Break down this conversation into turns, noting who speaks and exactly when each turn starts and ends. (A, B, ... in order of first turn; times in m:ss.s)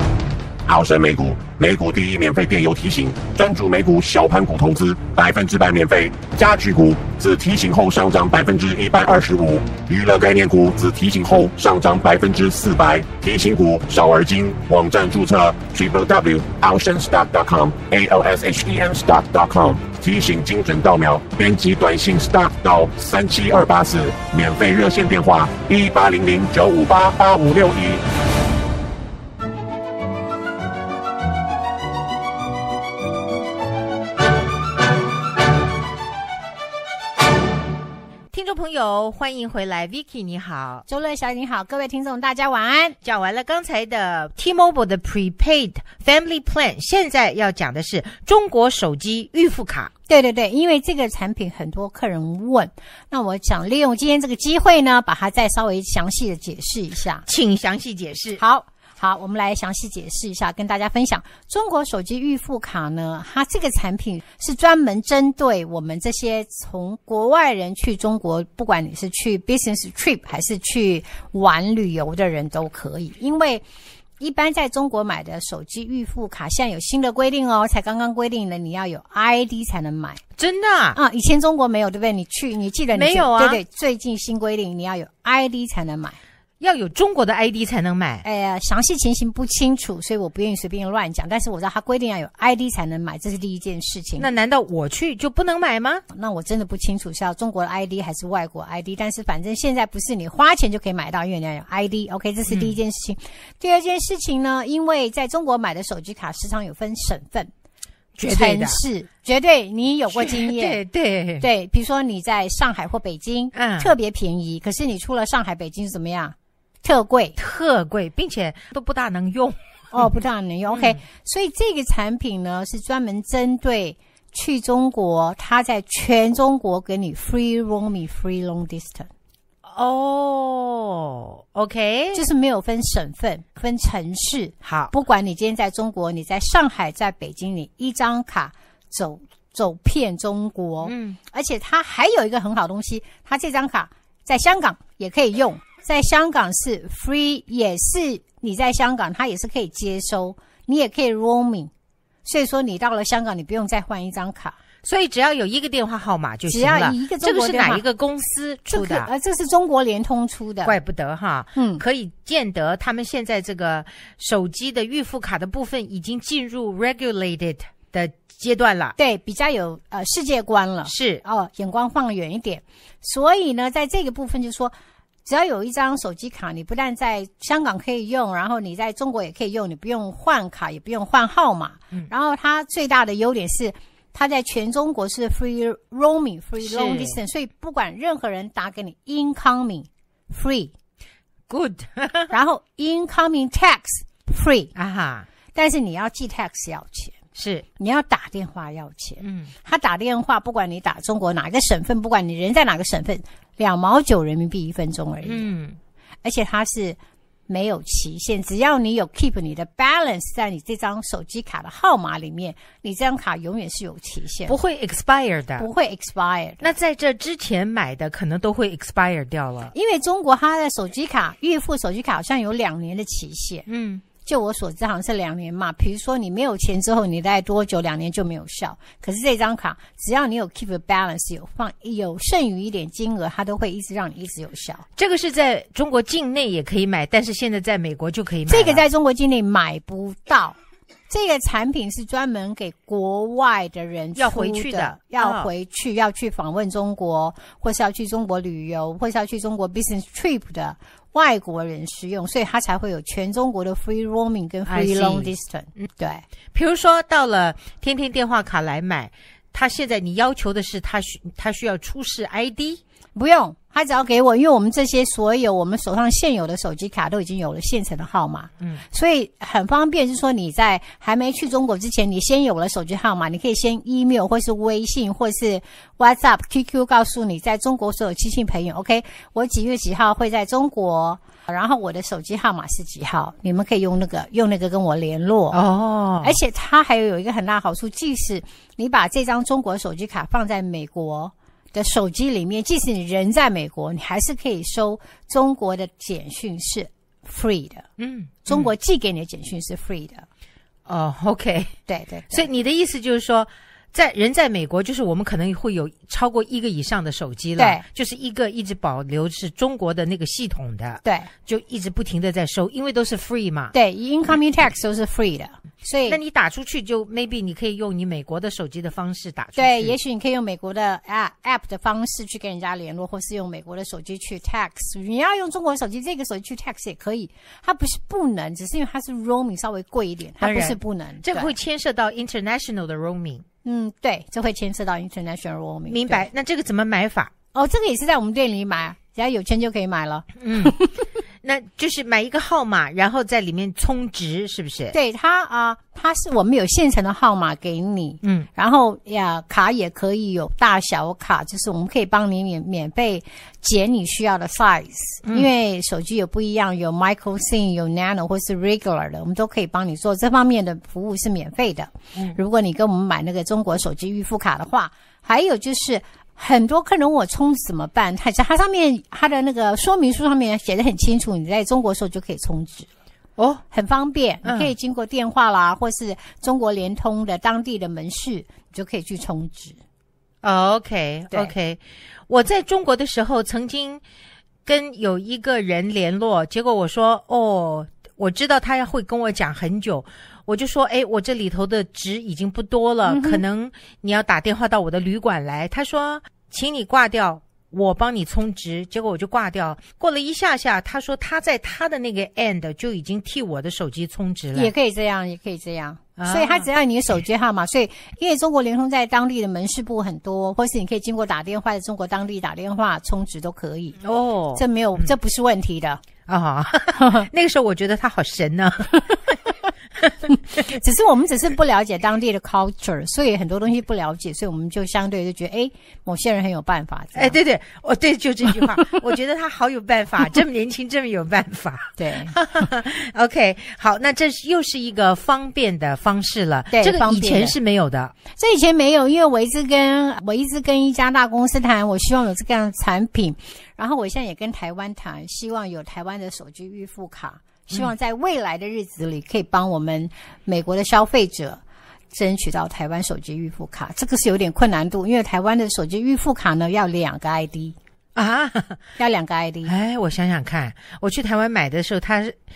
0:00.6-0:28.0 A
0:38.3-0:40.9 B
0:40.9-0:43.0 C
0:43.0-0:49.9 B
0:50.1-0:57.2 C
0:57.3-0:58.4 B
0:58.4-1:13.6 C
1:14.2-1:20.2 C
1:20.4-1:21.0 B
1:20.9-1:26.2 C
1:22.9-1:23.6 B
1:26.6-1:28.2 B
1:28.2-1:34.3 C
1:34.2-1:36.0 B
1:36.1-1:47.5 C
1:42.5-1:42.7 B
1:48.2-1:48.8 B
1:48.2-1:50.8 C
1:50.1-1:51.5 B
1:51.4-1:57.3 C
1:53.5-1:53.9 B
1:57.4-2:00.1 B
1:59.9-2:09.1 C
2:00.7-2:01.0 B
2:09.6-2:12.2 B
2:12.1-2:31.7 C
2:14.6-2:14.9 B
2:20.8-2:21.2 B
2:32.2-2:34.6 C
2:34.8-2:39.1 B
2:36.4-2:37.8 C
2:38.7-2:40.8 C
2:40.6-2:48.9 B
2:41.5-2:41.8 C
2:49.0-3:10.7 C
2:50.8-2:51.2 B
3:06.6-3:07.2 B
3:11.5-3:12.3 B
3:12.3-3:14.7 C
3:14.7-3:15.3 B
3:15.5-3:17.2 C
3:17.4-3:17.6 B
3:17.8-3:25.5 C
3:19.2-3:19.5 B
3:25.2-3:25.8 B
3:26.2-3:34.6 C
3:34.5-3:35.7 B
3:35.6-3:36.7 C
3:36.6-3:39.7 B
3:39.7-3:54.8 C
3:43.7-3:44.0 B
3:55.0-3:58.8 B
3:58.5-4:00.6 C
4:01.1-4:16.2 C
4:04.1-4:05.5 B
4:14.6-4:15.9 B
4:16.5-4:22.8 B
4:23.1-4:45.6 C
4:45.5-4:46.4 B
4:46.2-4:57.9 C
4:58.0-4:58.7 B
4:58.4-5:00.2 C
5:00.9-5:01.8 B
5:01.9-5:02.5 C
5:02.3-5:13.7 B
5:07.6-5:07.8 C
5:11.0-5:11.3 C
5:13.7-5:16.2 C
5:16.1-5:20.0 B
5:19.6-5:31.5 C
5:30.4-5:33.4 B
5:33.6-5:36.3 C
5:35.9-5:37.3 B
5:37.5-5:41.0 C
5:40.4-5:40.8 B
5:41.4-5:44.9 B
5:44.9-6:12.9 C
5:48.2-5:48.5 B
5:55.2-5:55.5 B
6:13.4-6:13.6 B
6:13.7-6:19.8 C
6:14.4-6:14.7 B
6:20.4-6:24.0 B
6:24.6-6:44.7 B
6:33.0-6:33.4 C
6:44.5-6:54.0 C
6:46.2-6:46.7 B
6:54.0-6:55.1 B
6:54.5-6:56.0 C
6:56.3-6:59.3 B
6:57.0-6:57.3 C
7:00.1-7:00.6 B
7:00.6-7:07.4 C
7:07.1-7:18.1 B
7:08.7-7:09.0 C
7:12.0-7:12.4 C
7:16.7-7:17.6 C
7:18.3-7:37.8 C
7:38.2-7:38.8 B
7:39.0-7:39.7 C
7:39.6-7:42.4 B